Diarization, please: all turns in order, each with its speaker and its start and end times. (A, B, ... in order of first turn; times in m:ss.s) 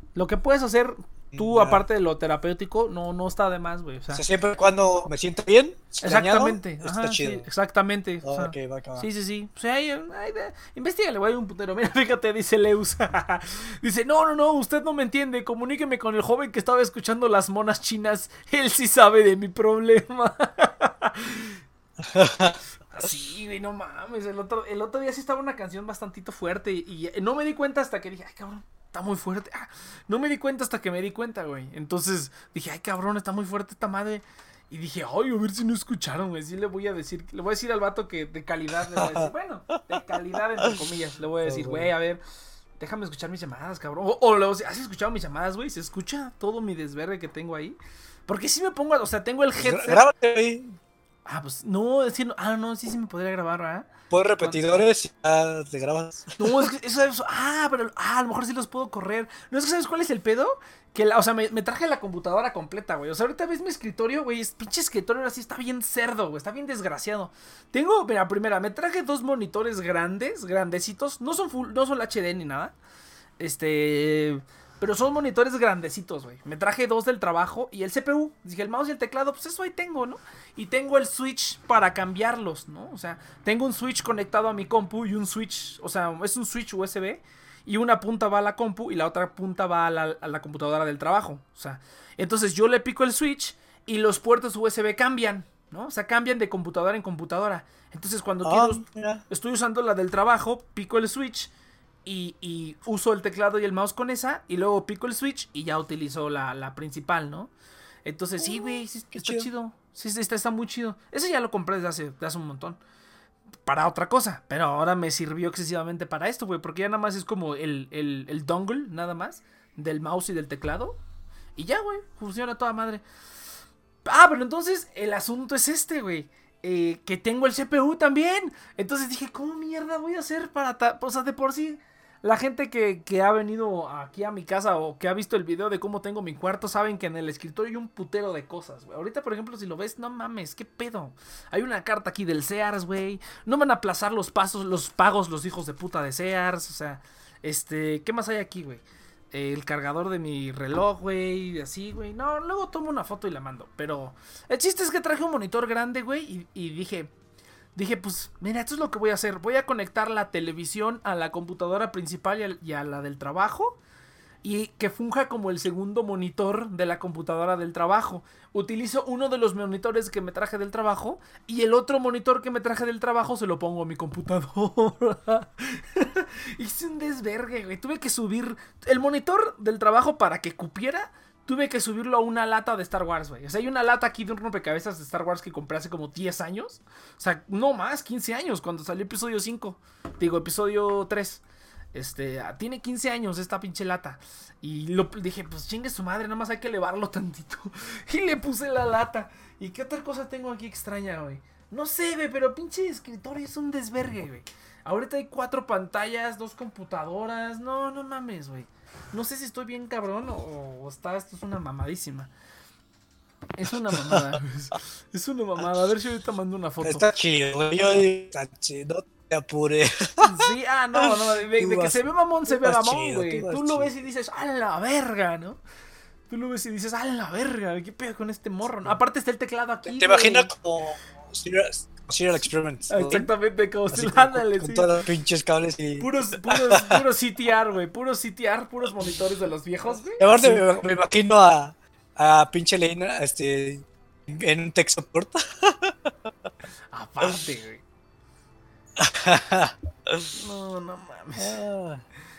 0:00.2-0:04.2 A
0:01.3-0:01.8 B
0:04.1-0:07.5 B
0:06.0-0:21.6 A
0:08.2-0:09.1 B
0:22.0-0:22.6 B
0:22.9-0:42.2 A
0:38.9-0:39.3 B
0:41.4-0:41.9 B
0:42.8-0:50.0 A
0:49.6-0:50.8 B
0:51.3-0:54.6 A
0:54.1-0:56.4 B
0:56.4-1:12.7 A
1:13.4-1:41.5 A
1:38.4-1:39.2 B
1:42.0-1:47.5 A
1:48.0-1:52.8 A
1:48.4-1:49.5 B
1:53.7-2:01.0 A
2:01.6-2:03.0 A
2:04.0-2:37.1 A
2:37.8-2:43.8 A
2:44.4-3:11.4 A
3:11.9-3:32.3 A
3:33.6-3:37.1 A
3:33.9-3:34.4 B
3:36.8-3:40.5 B
3:40.2-3:45.6 A
3:41.0-3:43.9 B
3:46.3-3:50.5 A
3:49.9-3:53.3 B
3:52.9-3:54.9 A
3:53.9-3:57.0 B
3:56.0-4:00.7 A
4:00.2-4:06.0 B
4:06.9-4:07.8 A
4:09.0-4:10.3 B
4:10.3-4:11.6 A
4:11.4-4:12.0 B